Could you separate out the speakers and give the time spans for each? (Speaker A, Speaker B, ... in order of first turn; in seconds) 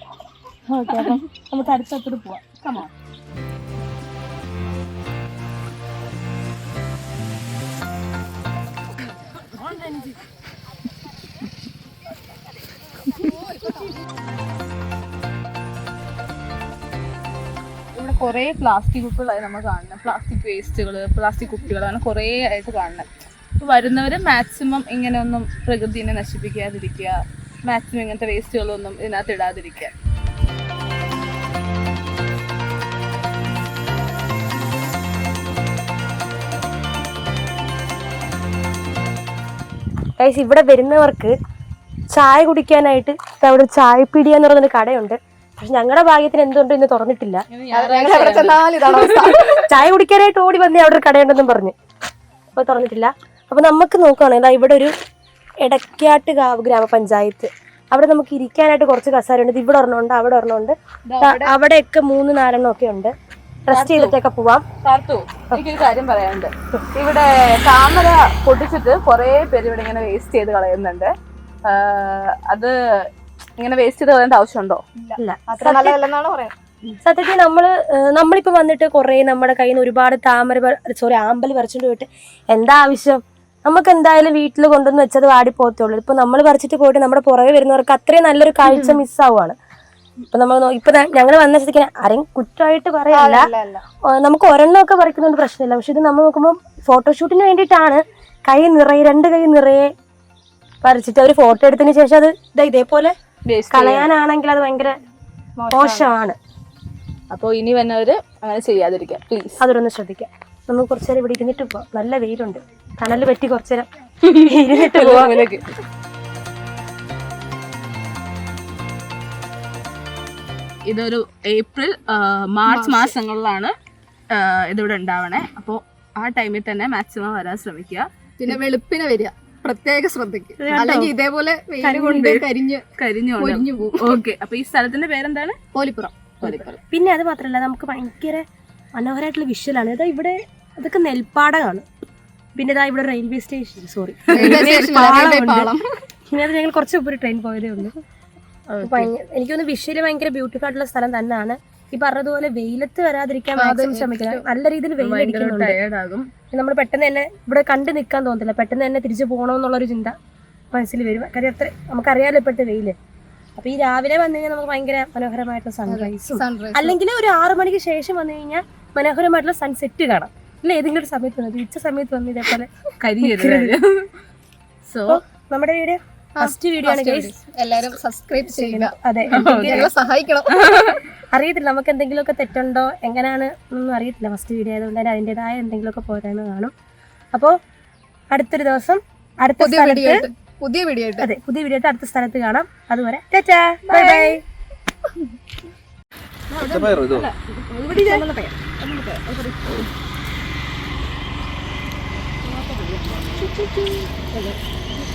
Speaker A: 0.7-2.4, 9.6-10.2, 40.2-41.3, 42.1-47.5, 49.6-51.7, 52.5-54.9, 55.6-63.1, 63.7-64.7, 75.2-76.0, 77.0-89.6, 90.3-93.5, 94.1-99.9, 100.8-103.1, 103.7-104.9, 105.7-106.4, 109.6-115.4, 130.6-131.1, 131.8-132.4, 136.5-138.4, 139.0-141.8, 142.6-145.7, 146.3-148.0, 148.8-155.8, 156.5-160.1, 160.7-162.9, 163.6-173.8, 175.1-177.3, 178.6-179.9, 181.3-186.7, 188.3-190.3, 191.2-194.4
Speaker B: 0.9-1.2, 2.4-2.9, 18.0-29.9, 47.5-49.7, 63.7-64.2, 64.8-71.1, 71.7-74.8, 103.5-104.1, 107.3-109.6, 114.3-115.6, 120.9-123.7, 124.3-128.1, 132.0-135.6, 136.4-136.8, 144.3-145.2, 148.7-149.1, 155.0-156.3, 173.0-174.1, 174.9-175.2, 179.3-179.9, 180.5-181.1, 193.9-194.3, 196.5-199.9, 202.7-203.0
Speaker C: 13.2-13.9, 47.7-49.6, 61.1-61.5, 75.0-76.5, 93.1-93.8, 105.6-106.2, 122.7-123.2, 128.4-134.2, 135.7-136.6, 144.3-145.9, 153.6-154.5, 165.9-167.0, 176.4-180.6, 189.6-191.3, 197.9-198.6, 203.1-204.5